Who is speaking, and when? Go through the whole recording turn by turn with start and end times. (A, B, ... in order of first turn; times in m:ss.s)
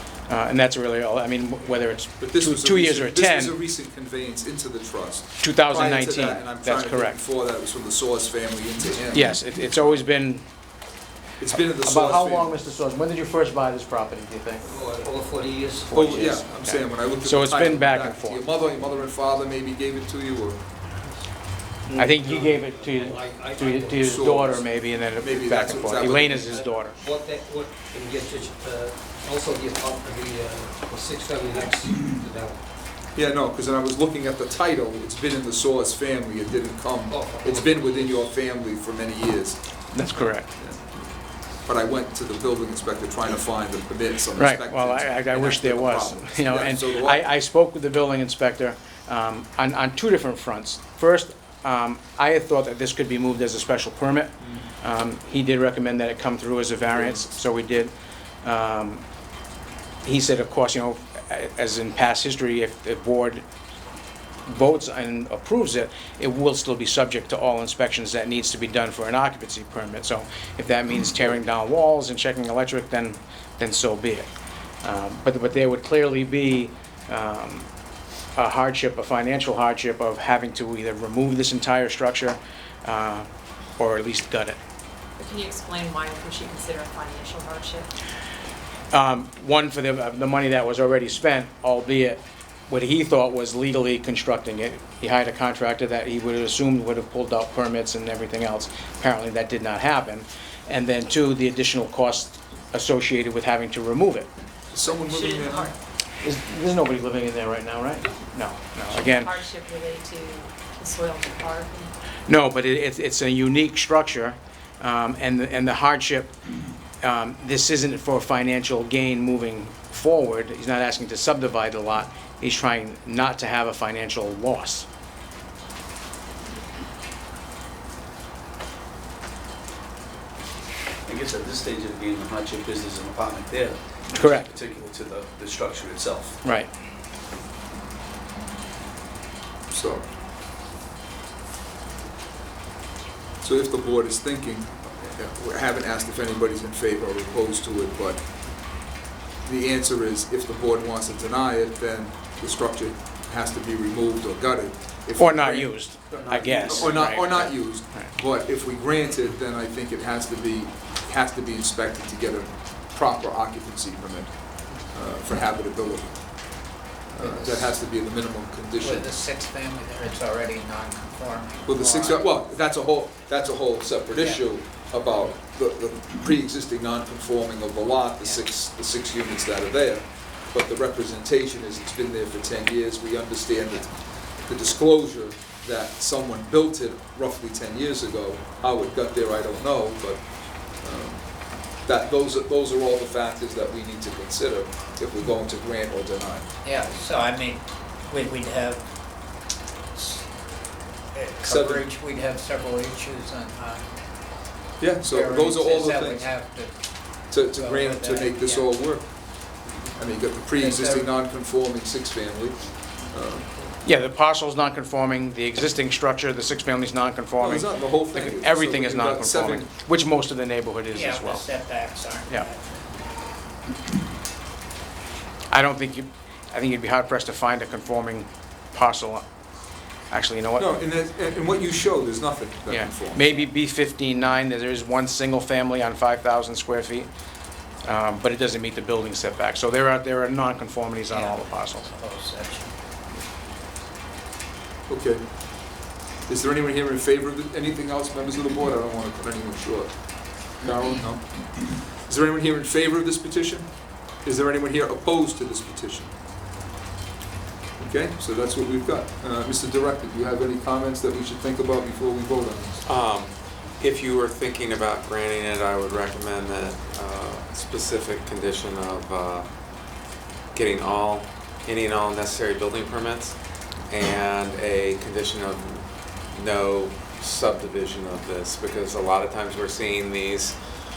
0:00.3-0:03.6 A
0:02.2-0:10.0 B
0:05.4-0:07.2 A
0:09.1-0:10.4 A
0:11.4-0:12.6 B
0:11.5-0:14.7 A
0:14.6-0:16.3 C
0:15.9-0:20.6 B
0:15.9-0:18.4 A
0:21.0-0:21.2 C
0:21.9-0:26.9 A
0:22.0-0:24.6 C
0:24.0-0:26.6 B
0:26.5-0:32.6 C
0:33.1-0:39.6 B
0:37.1-0:38.3 C
0:39.9-0:40.5 A
0:40.6-0:41.0 B
0:41.6-0:47.3 B
0:44.4-0:59.0 A
0:56.9-0:57.2 B
1:00.0-1:03.4 A
1:04.4-1:14.3 A
1:14.8-1:17.7 A
1:18.4-1:23.3 A
1:23.8-1:24.6 A
1:25.2-1:27.9 D
1:28.9-1:44.3 A
1:44.7-1:45.7 B
1:44.8-1:45.8 D
1:46.2-1:49.3 A
1:48.8-1:51.9 D
1:52.3-1:56.4 A
1:57.0-2:04.9 A
2:11.0-2:16.4 E
2:14.1-2:14.5 A
2:16.4-2:16.7 A
2:19.7-2:20.0 B
2:23.4-2:28.2 B
2:29.4-2:44.3 B
2:35.2-2:38.1 A
2:36.1-2:37.0 E
2:44.9-2:46.2 B
2:47.1-2:49.1 B
2:47.2-2:47.7 F
2:48.8-2:52.2 F
2:51.6-3:16.4 B
2:54.2-2:54.4 F
3:16.6-3:18.8 F
3:19.9-3:20.2 F
3:21.1-3:23.9 F
3:21.4-3:21.8 B
3:24.8-3:26.3 B
3:25.0-3:26.7 F
3:27.3-3:29.1 B
3:27.5-3:28.7 F
3:30.0-3:33.7 B
3:30.6-3:31.1 F
3:33.8-3:41.4 A
3:37.4-3:39.7 B
3:40.9-3:42.9 F
3:45.5-3:49.2 A
3:50.1-3:50.7 A
3:50.6-3:53.5 B
3:52.7-3:57.1 A
3:57.8-4:01.9 A
4:01.1-4:02.7 F
4:04.9-4:05.2 B
4:06.3-4:13.7 B
4:14.2-4:16.1 B
4:17.8-4:22.8 B
4:22.8-4:29.4 G
4:30.5-4:33.4 G
4:33.9-4:40.6 G